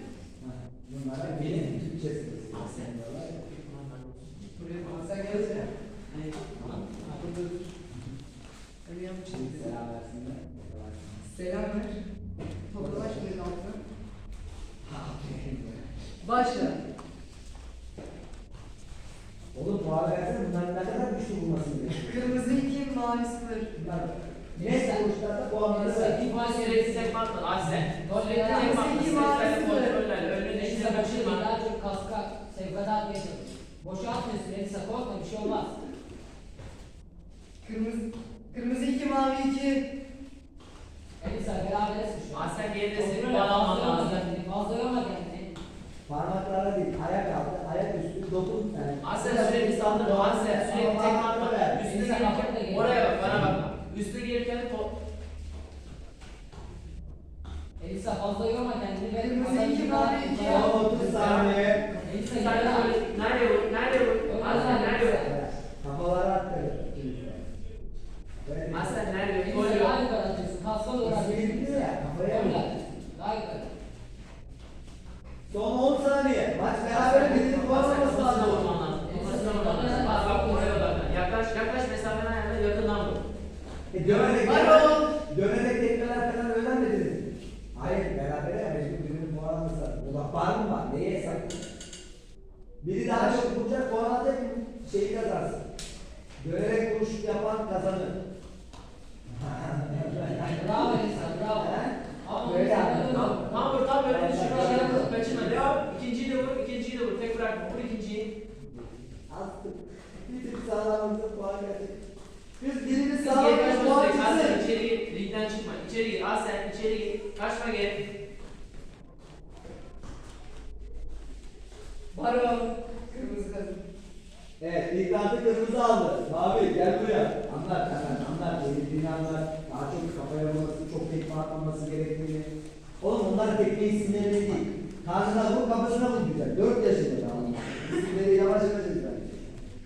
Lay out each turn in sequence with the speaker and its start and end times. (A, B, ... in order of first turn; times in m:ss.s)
0:00.4-0:03.4 A
0:01.3-0:01.7 B
0:02.5-0:06.8 B
0:04.6-0:05.7 C
0:06.6-0:06.9 A
0:06.6-0:07.5 D
0:08.8-0:09.8 C
0:09.3-0:11.2 A
0:11.3-0:12.0 C
0:12.7-0:13.8 C
0:12.7-0:13.3 A
0:14.8-0:15.8 A
0:16.2-0:16.8 C
0:19.5-0:22.3 A
0:21.9-0:23.8 C
0:23.7-0:26.2 A
0:24.6-0:25.1 D
0:25.6-0:27.2 D
0:26.3-0:31.4 B
0:28.0-0:28.8 D
0:28.3-0:30.0 C
0:30.5-0:35.8 D
0:37.6-0:39.8 C
0:41.2-0:45.5 D
0:42.3-0:44.2 B
0:46.1-0:51.8 A
0:49.0-0:54.9 B
0:51.8-0:53.4 D
0:57.8-1:00.8 D
0:59.1-1:01.0 C
1:00.4-1:01.8 A
1:01.0-1:01.6 B
1:02.0-1:02.9 D
1:02.2-1:05.3 B
1:04.2-1:05.3 D
1:05.1-1:07.4 A
1:08.4-1:09.0 A
1:08.7-1:10.0 B
1:09.4-1:13.7 D
1:11.0-1:12.6 A
1:15.5-1:18.8 A
1:16.8-1:23.2 B
1:19.0-1:20.9 D
1:23.9-1:31.7 A
1:24.0-1:24.8 B
1:24.4-1:25.1 C
1:32.8-1:35.6 A
1:36.4-1:38.2 A
1:39.3-1:45.7 A
1:40.3-1:43.7 D
1:43.1-1:48.3 B
1:44.4-1:45.2 D
1:49.3-1:52.0 A
1:52.6-1:54.6 A
1:53.2-1:58.0 B
2:02.1-2:03.8 C
2:04.6-2:19.6 A
2:17.3-2:18.0 D